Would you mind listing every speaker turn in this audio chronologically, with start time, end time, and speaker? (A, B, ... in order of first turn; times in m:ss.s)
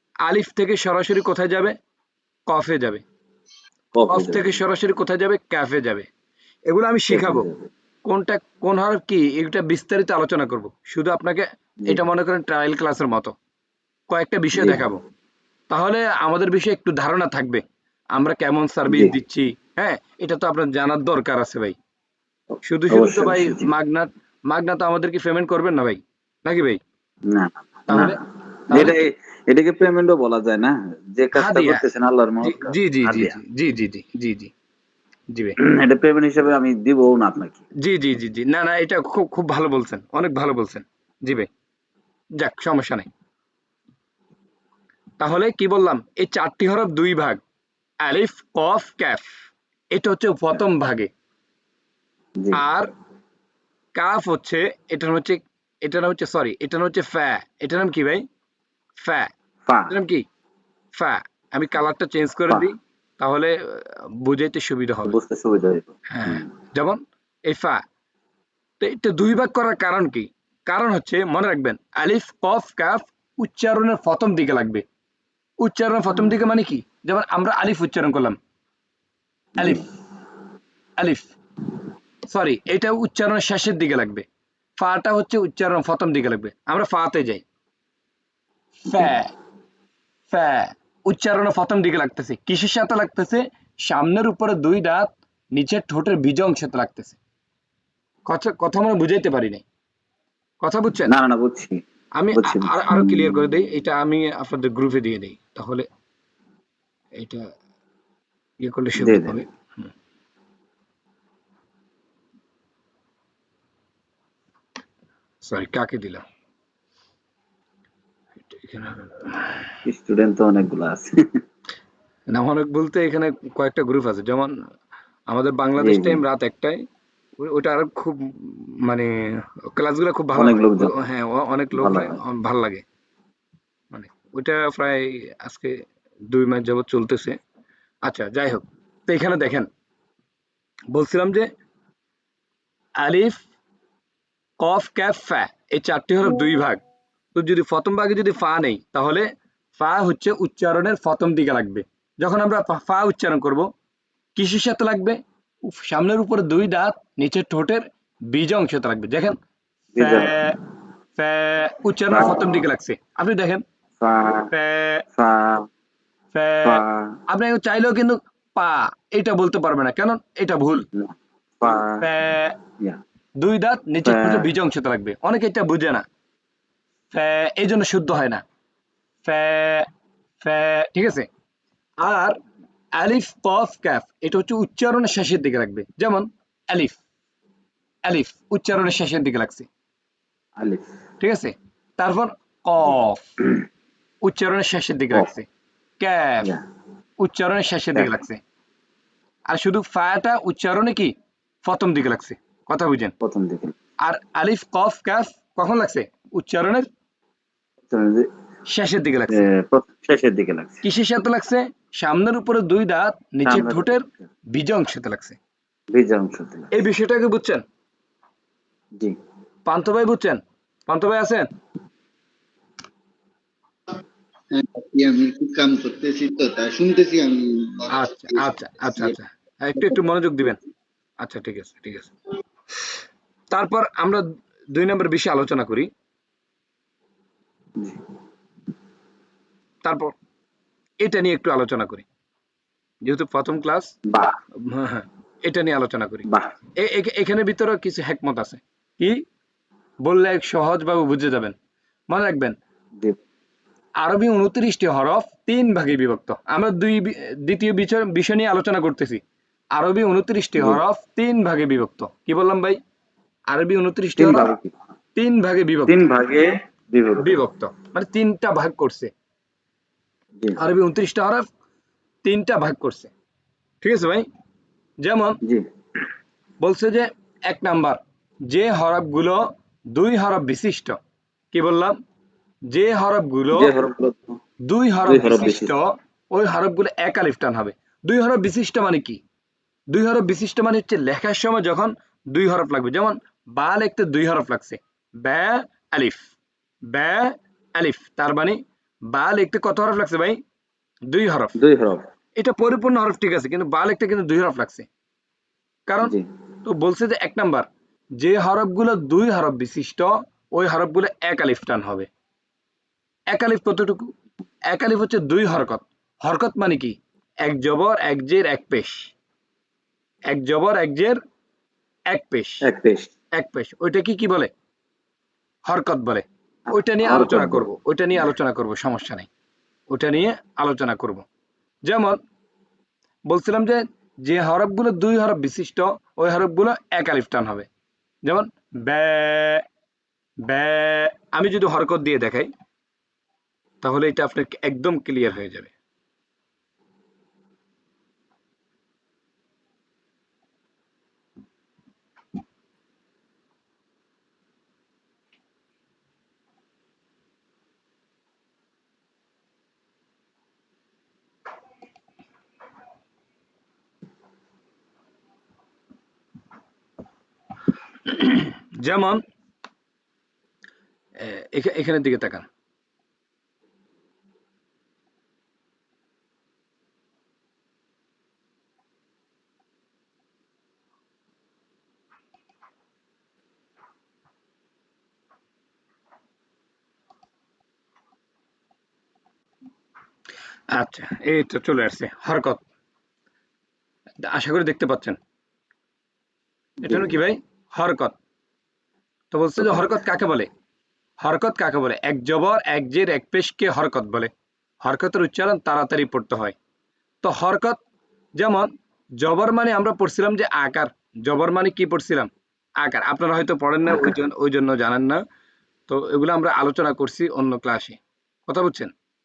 0:00.2-0:01.8 A
0:02.5-0:03.0 A
0:03.9-0:04.6 B
0:04.1-0:06.1 A
0:06.7-0:07.5 A
0:07.1-0:07.7 B
0:08.0-0:13.3 A
0:14.1-0:15.0 A
0:14.5-0:14.8 B
0:15.7-0:17.6 A
0:18.2-0:21.8 A
0:18.9-0:19.1 B
0:22.5-0:23.7 B
0:22.6-0:26.8 A
0:27.3-0:28.2 B
0:27.9-0:29.0 A
0:28.7-0:33.4 B
0:31.3-0:31.9 A
0:32.4-0:34.5 A
0:35.3-0:35.6 A
0:35.6-0:37.6 B
0:37.8-0:41.5 A
0:42.4-0:43.1 A
0:45.2-0:47.4 A
0:48.0-0:49.3 A
0:49.9-0:51.1 A
0:52.5-0:52.9 A
0:53.9-0:58.2 A
0:59.0-0:59.3 A
0:59.6-0:59.9 B
0:59.9-1:00.2 A
1:00.9-1:05.2 A
1:05.0-1:06.4 B
1:06.1-1:07.8 A
1:08.8-1:14.8 A
1:15.6-1:18.4 A
1:19.6-1:19.9 A
1:19.6-1:19.8 B
1:21.0-1:21.3 A
1:22.3-1:24.2 A
1:24.8-1:27.4 A
1:28.8-1:29.3 A
1:30.3-1:37.2 A
1:38.3-1:39.6 A
1:40.6-1:41.2 A
1:41.1-1:43.6 B
1:42.2-1:45.9 A
1:47.2-1:47.5 A
1:48.6-1:49.9 A
1:49.0-1:49.4 B
1:55.4-1:56.2 A
1:58.4-1:59.6 A
1:59.9-2:01.2 B
2:02.3-2:04.5 A
2:05.3-2:06.8 A
2:05.8-2:06.2 B
2:07.4-2:12.8 A
2:10.4-2:10.9 B
2:11.8-2:12.2 B
2:13.9-2:17.4 A
2:18.0-2:19.7 A
2:20.9-2:21.5 A
2:23.0-2:23.4 A
2:24.6-2:26.8 A
2:27.3-2:33.7 A
2:34.4-2:39.4 A
2:39.9-2:40.5 B
2:39.9-2:40.6 A
2:41.2-2:43.6 A
2:42.1-2:42.6 B
2:44.0-2:44.5 B
2:44.5-2:45.0 A
2:45.1-2:45.7 B
2:46.3-2:50.9 A
2:46.6-2:47.2 B
2:51.0-2:52.1 B
2:52.0-2:52.6 A
2:53.4-2:56.0 A
2:54.0-2:54.5 B
2:57.1-2:58.4 A
2:59.2-2:59.9 A
3:00.4-3:01.3 A
3:02.0-3:02.4 A
3:03.0-3:07.0 A
3:08.1-3:09.7 A
3:10.6-3:10.9 B
3:11.2-3:13.3 A
3:14.2-3:15.5 A
3:16.0-3:16.5 A
3:17.2-3:18.4 A
3:19.5-3:21.1 A
3:21.6-3:23.1 A
3:23.2-3:23.8 B
3:24.0-3:26.9 A
3:27.9-3:28.3 B
3:28.7-3:29.5 A
3:29.3-3:30.8 B
3:30.8-3:35.4 A
3:33.4-3:33.9 B
3:35.9-3:36.7 B
3:36.7-3:37.6 A
3:39.6-3:41.5 A
3:44.5-3:49.1 C
3:47.9-3:50.6 A
3:51.2-3:52.1 A
3:53.5-3:55.9 A
3:59.8-4:00.1 A
4:01.0-4:02.1 A
4:03.0-4:03.9 A
4:04.1-4:04.4 B
4:04.6-4:09.2 A
4:10.0-4:11.6 A
4:12.1-4:12.6 A
4:14.0-4:19.2 A
4:19.8-4:22.8 A
4:23.5-4:24.5 A
4:24.2-4:24.7 B
4:25.1-4:26.1 A
4:25.9-4:27.4 B
4:27.2-4:29.1 A
4:30.6-4:31.5 A
4:32.2-4:33.1 A
4:33.8-4:34.3 A
4:35.0-4:35.4 A
4:35.4-4:35.7 B
4:36.6-4:41.0 A
4:41.5-4:42.0 A
4:42.7-4:43.7 A
4:43.5-4:44.4 B
4:44.7-4:49.2 A
4:45.1-4:45.7 B
4:49.9-4:56.3 A
4:56.9-5:00.4 A
5:01.1-5:01.6 A
5:01.6-5:02.1 B
5:02.4-5:04.9 A
5:05.9-5:07.7 A
5:08.2-5:12.1 A
5:13.3-5:14.1 A
5:14.7-5:19.1 A
5:20.3-5:21.2 A
5:22.1-5:22.7 A
5:22.6-5:23.1 B
5:23.4-5:24.5 A
5:25.7-5:29.3 A
5:26.7-5:27.7 B
5:29.9-5:31.3 A
5:31.8-5:32.2 A
5:33.3-5:37.7 A
5:38.3-5:39.6 A
5:40.4-5:42.5 A
5:43.8-5:45.7 A
6:08.1-6:09.2 A
6:11.2-6:12.5 A
6:30.7-6:32.6 A
6:34.2-6:35.2 A
6:36.8-6:37.2 B
6:36.8-6:38.2 A
6:39.3-6:40.5 A
6:39.6-6:39.9 B
6:41.2-6:44.3 A
6:44.8-6:46.6 A
6:47.2-6:47.8 A
6:48.4-6:55.2 A
6:53.8-6:54.2 B
6:55.9-6:58.9 A